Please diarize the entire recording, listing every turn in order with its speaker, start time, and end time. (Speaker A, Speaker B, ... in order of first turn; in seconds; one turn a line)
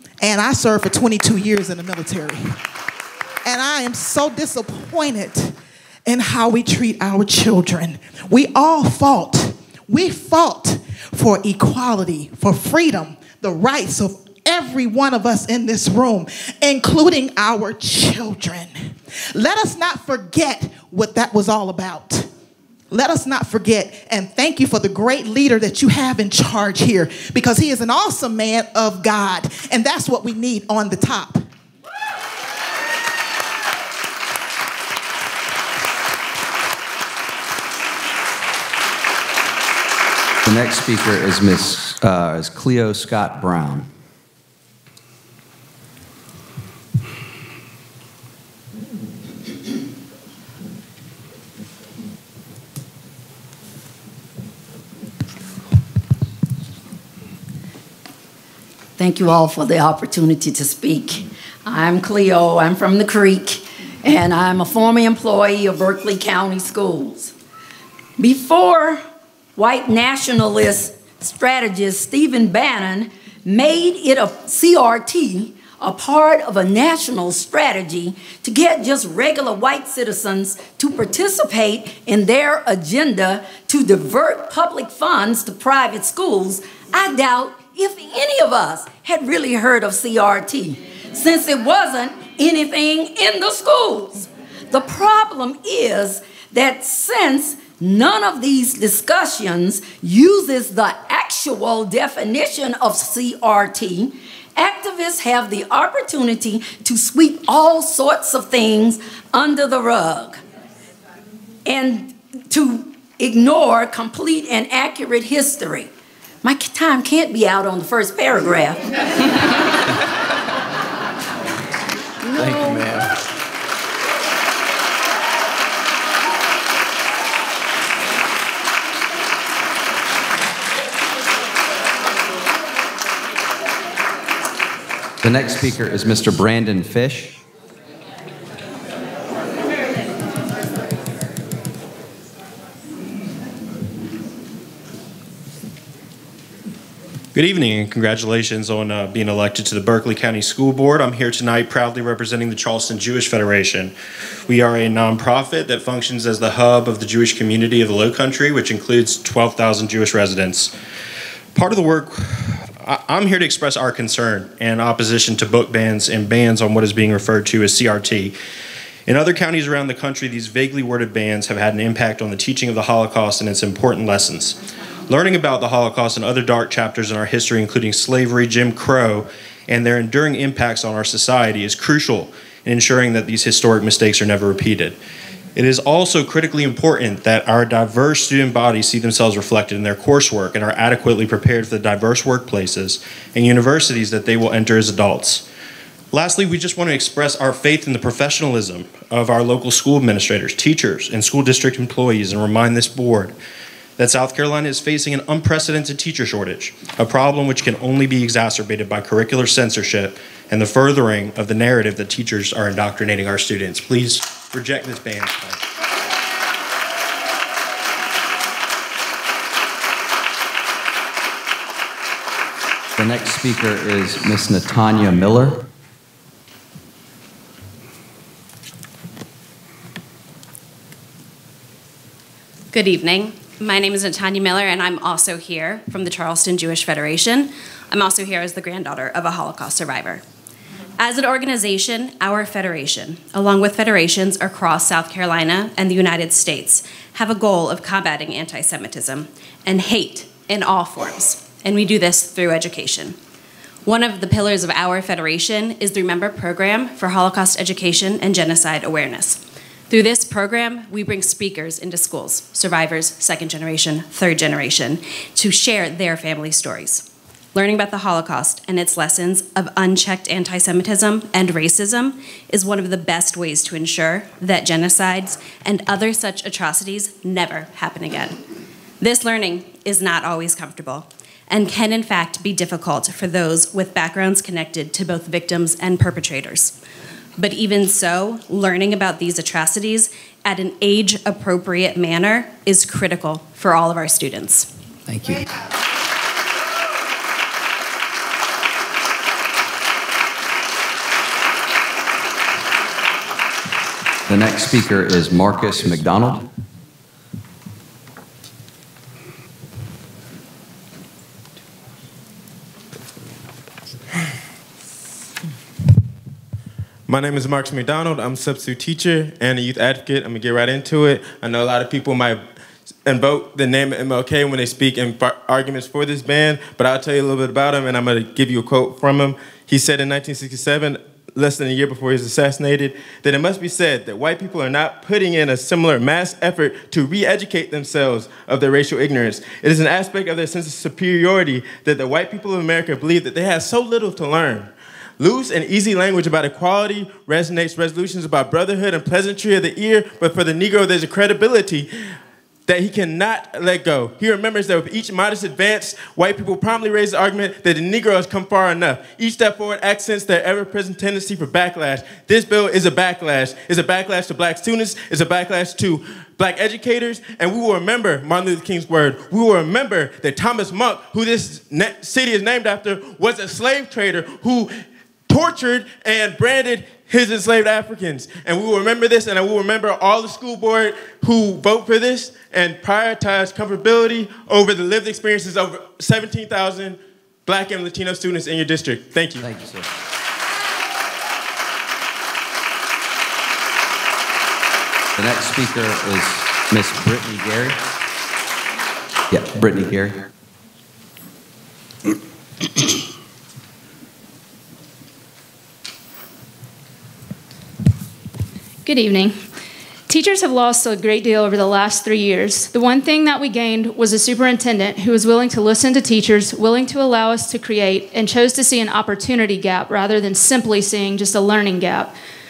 Speaker A: 0.2-2.6
Speaker A: 3.4-5.5
Speaker A: 6.0-22.3
Speaker A: 22.9-31.4
Speaker B: 40.4-43.9
Speaker C: 59.0-67.3
Speaker C: 68.2-69.0
Speaker C: 69.5-110.4
Speaker C: 111.7-115.9
Speaker C: 116.4-118.8
Speaker B: 122.3-123.1
Speaker B: 135.2-137.4
Speaker D: 147.3-153.9
Speaker E: 147.4-147.7
Speaker E: 148.4-148.9
Speaker D: 154.5-160.7
Speaker E: 159.1-159.9
Speaker D: 161.6-162.2
Speaker D: 162.9-168.3
Speaker E: 163.4-165.3
Speaker D: 169.1-174.5
Speaker E: 169.7-170.6
Speaker E: 173.6-174.4
Speaker D: 175.1-184.9
Speaker E: 175.3-177.3
Speaker E: 178.7-179.9
Speaker E: 182.2-182.9
Speaker E: 183.5-183.8
Speaker D: 185.6-195.4
Speaker E: 185.9-187.2
Speaker E: 188.2-189.7
Speaker D: 196.1-203.3
Speaker D: 204.0-215.6
Speaker E: 214.5-215.0
Speaker B: 223.0-225.7
Speaker E: 232.7-240.2
Speaker E: 241.0-253.1
Speaker E: 253.9-259.4
Speaker E: 259.9-267.0
Speaker E: 267.5-278.3
Speaker E: 279.0-286.7
Speaker E: 287.4-294.6
Speaker B: 295.1-295.4
Speaker B: 304.3-306.5
Speaker F: 317.1-322.4
Speaker F: 323.0-351.9
Speaker F: 352.7-374.7
Speaker F: 375.3-389.4
Speaker B: 389.4-389.9
Speaker B: 395.2-397.8
Speaker B: 399.3-400.2
Speaker G: 408.8-409.4
Speaker G: 410.1-422.1